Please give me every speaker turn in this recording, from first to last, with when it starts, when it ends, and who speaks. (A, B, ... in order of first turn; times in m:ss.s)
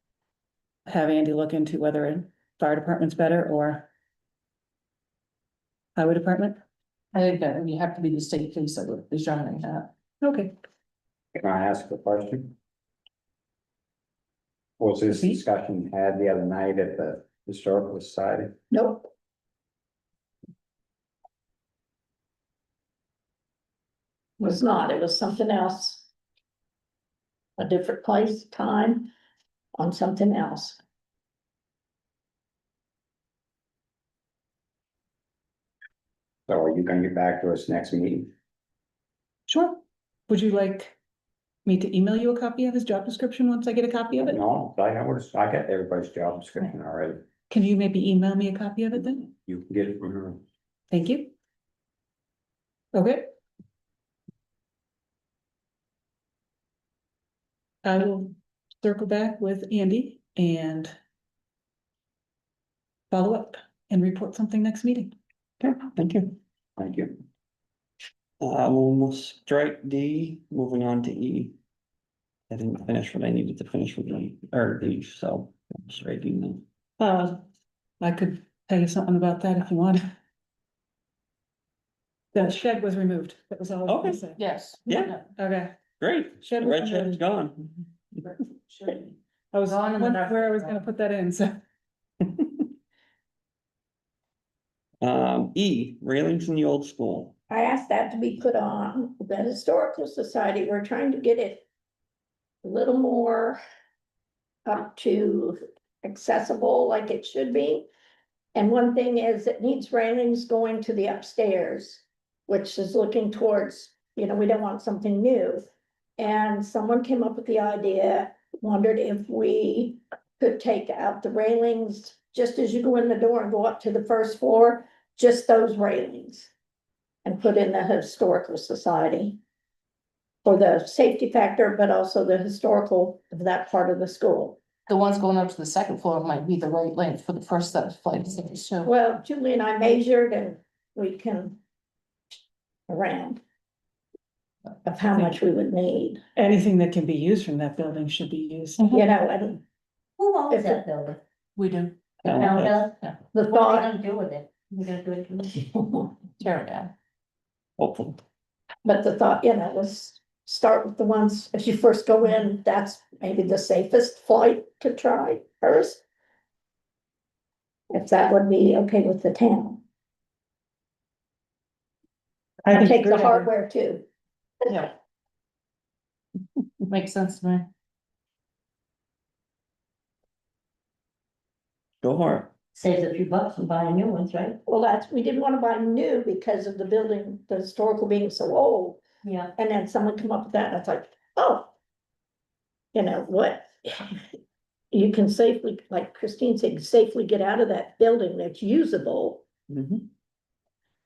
0:00.8-0:03.9 A
0:06.0-0:06.6 A
0:07.1-0:09.9 B
0:10.2-0:10.5 A
0:11.3-0:12.5 C
0:14.8-0:18.5 C
0:15.1-0:15.4 A
0:18.7-0:19.1 D
0:24.4-0:26.0 D
0:27.6-0:29.1 D
0:29.7-0:30.8 D
0:36.5-0:38.3 C
0:39.5-0:41.0 A
0:41.6-0:44.4 A
0:44.2-0:47.2 C
0:47.5-0:49.2 A
0:49.3-0:50.4 C
0:50.9-0:51.3 A
0:52.9-0:53.3 A
0:57.8-1:00.9 A
1:03.1-1:05.1 A
1:05.6-1:06.4 E
1:06.8-1:07.1 C
1:08.4-1:11.6 E
1:12.5-1:16.6 E
1:17.0-1:17.4 A
1:18.0-1:20.0 A
1:22.3-1:24.4 A
1:23.9-1:24.2 E
1:24.4-1:25.2 B
1:24.9-1:25.2 E
1:25.3-1:25.8 A
1:26.0-1:27.8 E
1:26.4-1:27.2 A
1:28.2-1:30.7 B
1:29.5-1:31.6 A
1:35.0-1:37.3 E
1:37.5-1:41.6 D
1:42.6-1:43.6 D
1:44.6-1:47.9 D
1:48.5-1:55.6 D
1:56.2-2:06.5 D
2:07.2-2:09.4 D
2:10.4-2:14.6 D
2:14.9-2:18.9 B
2:18.8-2:21.6 D
2:22.9-2:23.4 D
2:24.8-2:26.2 D
2:26.4-2:28.8 A
2:28.9-2:29.6 D
2:30.2-2:31.2 F
2:30.5-2:30.9 D
2:31.6-2:32.2 B
2:32.2-2:32.8 E
2:32.2-2:35.8 F
2:33.3-2:33.9 D
2:36.4-2:36.9 B
2:37.8-2:38.2 E
2:38.8-2:46.0 D
2:47.9-2:49.8 D
2:52.6-2:53.5 A
2:52.7-2:54.0 D
2:56.9-2:57.7 B
3:02.0-3:02.5 E
3:02.7-3:04.6 F
3:04.6-3:09.0 D
3:09.2-3:09.5 F
3:09.6-3:11.7 D
3:12.9-3:14.2 D
3:14.9-3:19.4 D
3:19.7-3:20.1 E